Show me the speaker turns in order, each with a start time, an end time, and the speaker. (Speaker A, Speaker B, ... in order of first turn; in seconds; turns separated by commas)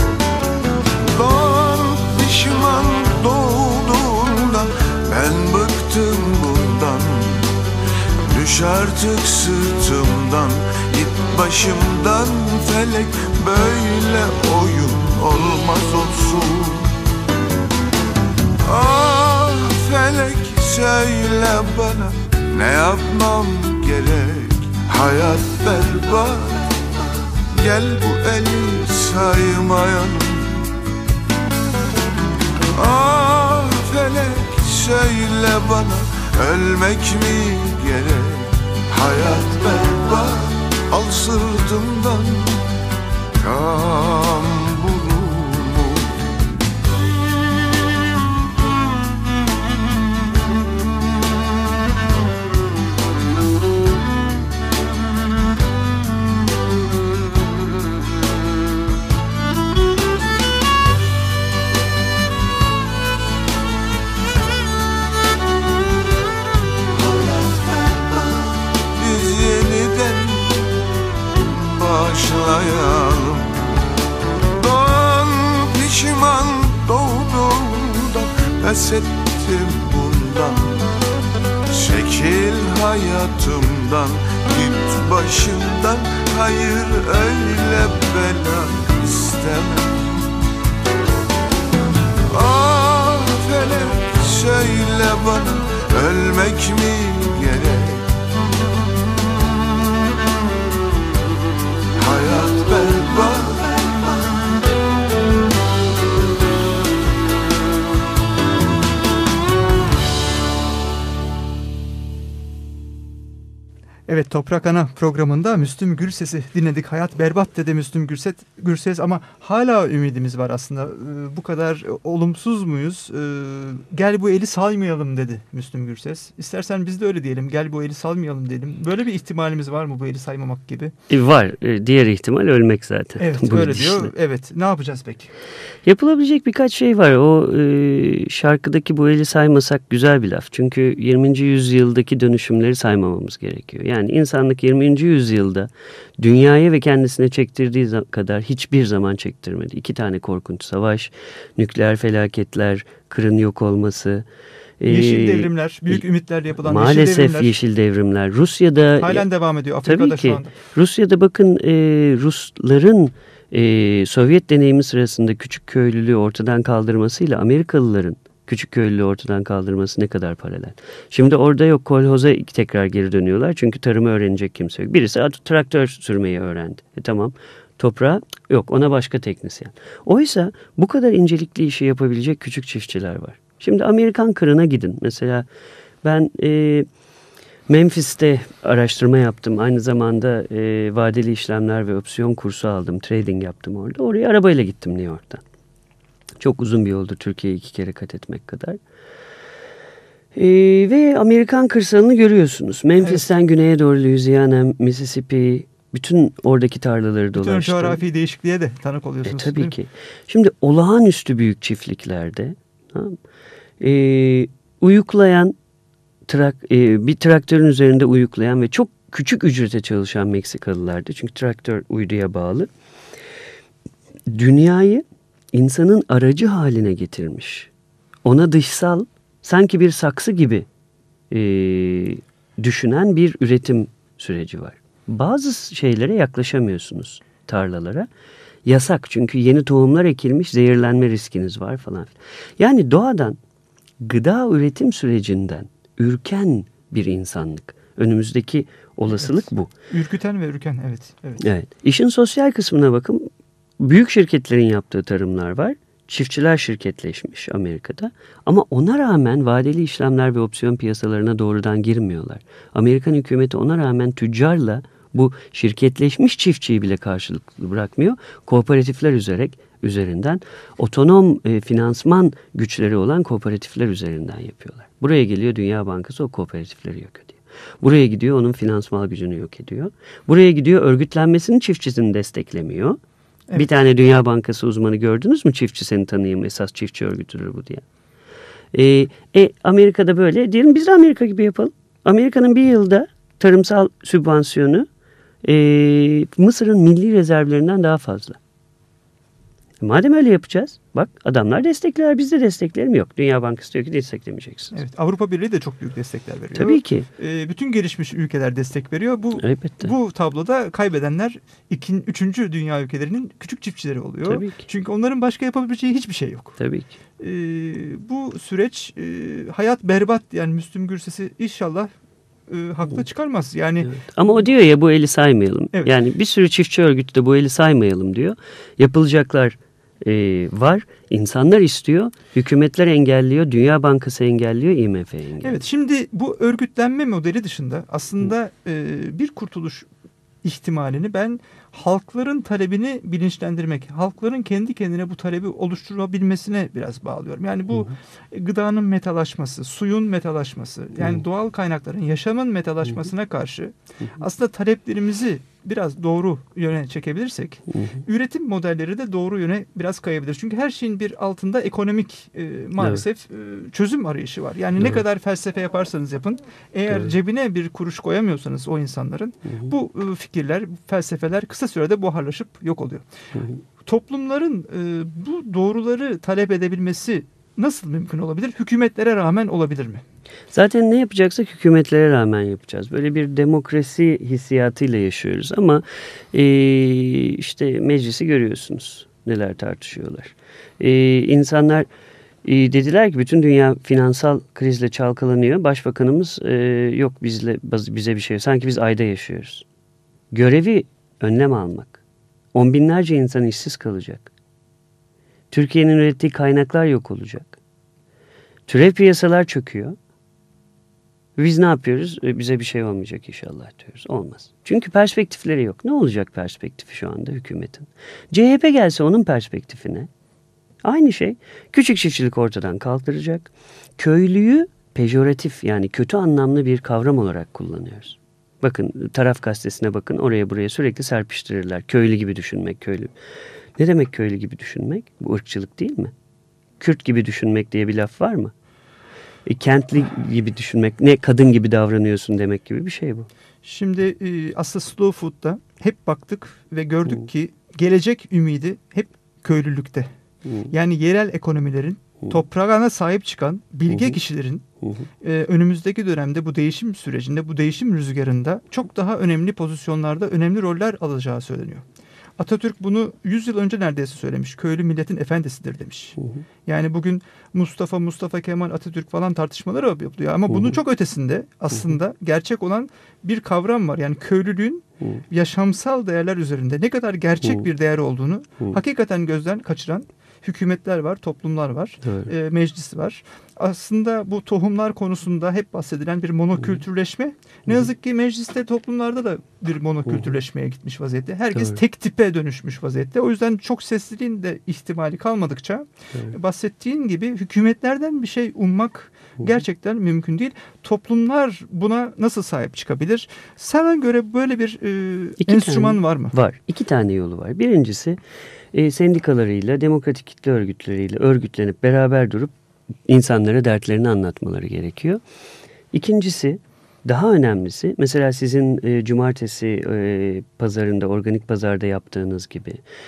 Speaker A: 1.0-7.5, Speaker A: 8.2-16.9, Speaker A: 18.6-30.6, Speaker A: 32.7-42.6, Speaker A: 43.4-46.2, Speaker A: 66.9-70.7, Speaker A: 71.3-73.6, Speaker A: 74.5-80.9, Speaker A: 81.7-90.3, Speaker A: 92.3-98.1, Speaker A: 101.9-104.2, Speaker B: 114.1-130.9, Speaker C: 131.1-134.1, Speaker B: 133.2-135.3, Speaker C: 135.8-154.2, Speaker C: 154.8-156.0, Speaker B: 154.8-157.5, Speaker C: 156.6-159.3, Speaker B: 159.0-160.5, Speaker C: 159.8-185.5, Speaker C: 186.0-186.9, Speaker C: 187.7-195.4, Speaker C: 196.4-198.8, Speaker C: 200.3-208.0, Speaker B: 207.3-209.7, Speaker C: 209.2-213.2, Speaker C: 213.8-215.6, Speaker C: 216.3-222.7, Speaker C: 224.3-227.7, Speaker C: 228.2-230.7, Speaker C: 231.3-238.1, Speaker C: 238.6-243.4, Speaker C: 244.0-249.7, Speaker B: 249.1-251.4, Speaker C: 251.4-253.3, Speaker C: 253.8-283.0, Speaker C: 283.5-287.8, Speaker C: 288.7-294.9, Speaker C: 295.4-298.4, Speaker C: 299.8-304.8, Speaker B: 304.7-316.6, Speaker C: 306.5-307.1, Speaker C: 309.4-309.9, Speaker C: 314.2-314.6, Speaker C: 316.6-316.9, Speaker B: 317.2-321.9, Speaker B: 322.5-323.9, Speaker C: 323.8-335.6, Speaker B: 335.4-339.9, Speaker B: 340.4-373.0, Speaker C: 362.8-363.0, Speaker B: 373.8-380.0, Speaker C: 380.5-391.9, Speaker C: 392.4-399.6, Speaker C: 400.3-402.0, Speaker C: 402.5-404.3, Speaker C: 405.5-407.6, Speaker C: 408.7-409.9, Speaker C: 411.4-420.1, Speaker C: 420.8-433.1, Speaker C: 433.8-436.1, Speaker C: 436.8-438.5, Speaker C: 439.4-443.3, Speaker B: 443.6-450.1, Speaker B: 450.7-454.6, Speaker C: 453.9-454.2, Speaker B: 455.2-461.8, Speaker B: 462.4-506.3, Speaker C: 482.0-482.3, Speaker C: 491.5-491.8, Speaker C: 505.4-508.2, Speaker C: 508.7-512.5, Speaker C: 513.1-515.2, Speaker C: 515.9-522.8